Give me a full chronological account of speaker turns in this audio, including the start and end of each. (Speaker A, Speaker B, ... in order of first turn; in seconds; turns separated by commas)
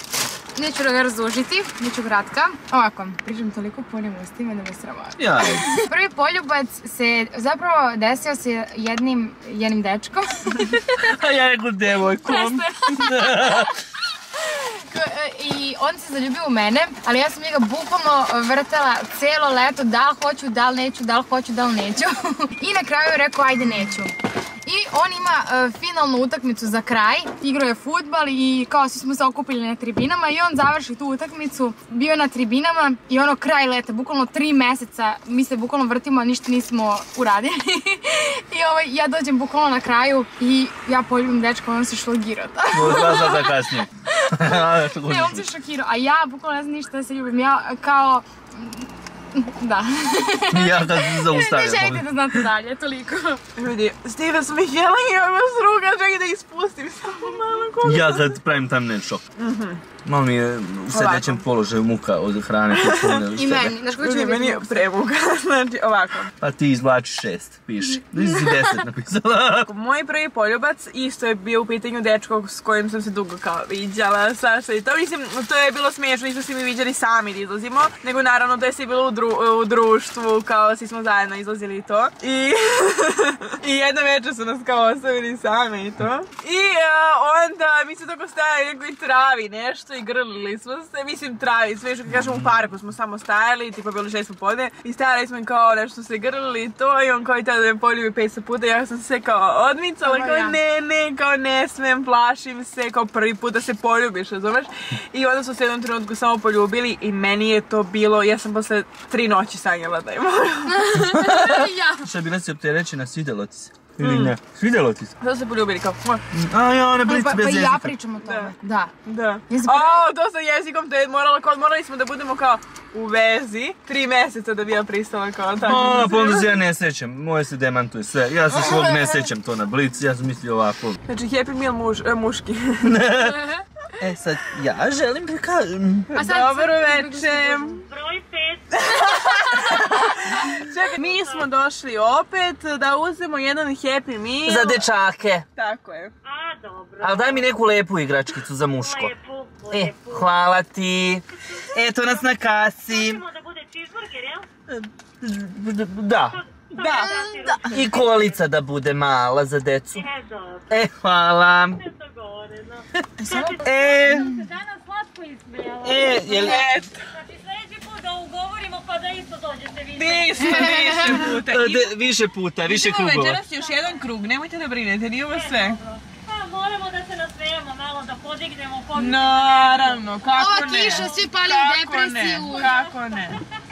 Speaker A: 0.6-11.1, Speaker B: 5.2-5.7, Speaker B: 10.7-13.7, Speaker A: 12.2-13.7, Speaker A: 14.3-43.6, Speaker B: 42.7-45.5, Speaker A: 44.1-53.4, Speaker B: 50.5-52.5, Speaker C: 53.6-58.3, Speaker B: 57.8-59.2, Speaker C: 59.4-59.8, Speaker B: 60.0-63.8, Speaker C: 60.9-61.4, Speaker C: 62.7-63.2, Speaker A: 63.3-64.8, Speaker C: 64.0-66.3, Speaker B: 66.4-69.7, Speaker A: 68.2-68.5, Speaker C: 69.7-111.0, Speaker A: 100.0-100.6, Speaker A: 110.8-112.1, Speaker B: 111.0-115.2, Speaker C: 114.0-114.3, Speaker C: 115.2-116.2, Speaker B: 116.3-118.0, Speaker A: 117.0-118.9, Speaker C: 118.2-118.5, Speaker C: 119.0-126.5, Speaker A: 119.5-120.1, Speaker B: 125.6-131.0, Speaker A: 128.5-129.2, Speaker C: 131.1-133.1, Speaker B: 132.8-133.4, Speaker B: 134.0-136.1, Speaker C: 136.1-137.8, Speaker A: 136.2-137.8, Speaker D: 137.8-139.8, Speaker C: 138.7-144.8, Speaker D: 141.0-141.5, Speaker B: 144.4-145.5, Speaker C: 145.6-146.1, Speaker D: 146.2-147.5, Speaker B: 147.0-149.1, Speaker D: 148.8-150.3, Speaker B: 149.7-153.2, Speaker D: 151.5-152.3, Speaker D: 152.9-154.5, Speaker B: 154.7-156.4, Speaker D: 156.3-158.5, Speaker C: 156.8-157.7, Speaker A: 156.9-157.6, Speaker B: 157.7-160.1, Speaker D: 159.9-160.7, Speaker B: 160.7-161.8, Speaker D: 161.7-171.1, Speaker A: 163.2-164.4, Speaker B: 163.6-164.3, Speaker B: 165.8-166.7, Speaker C: 166.3-167.1, Speaker C: 170.0-171.9, Speaker A: 170.4-171.2, Speaker B: 171.2-173.4, Speaker C: 172.7-175.8, Speaker D: 173.5-174.1, Speaker D: 175.3-180.1, Speaker C: 178.9-183.4, Speaker A: 180.3-182.7, Speaker D: 180.8-181.3, Speaker D: 182.5-183.4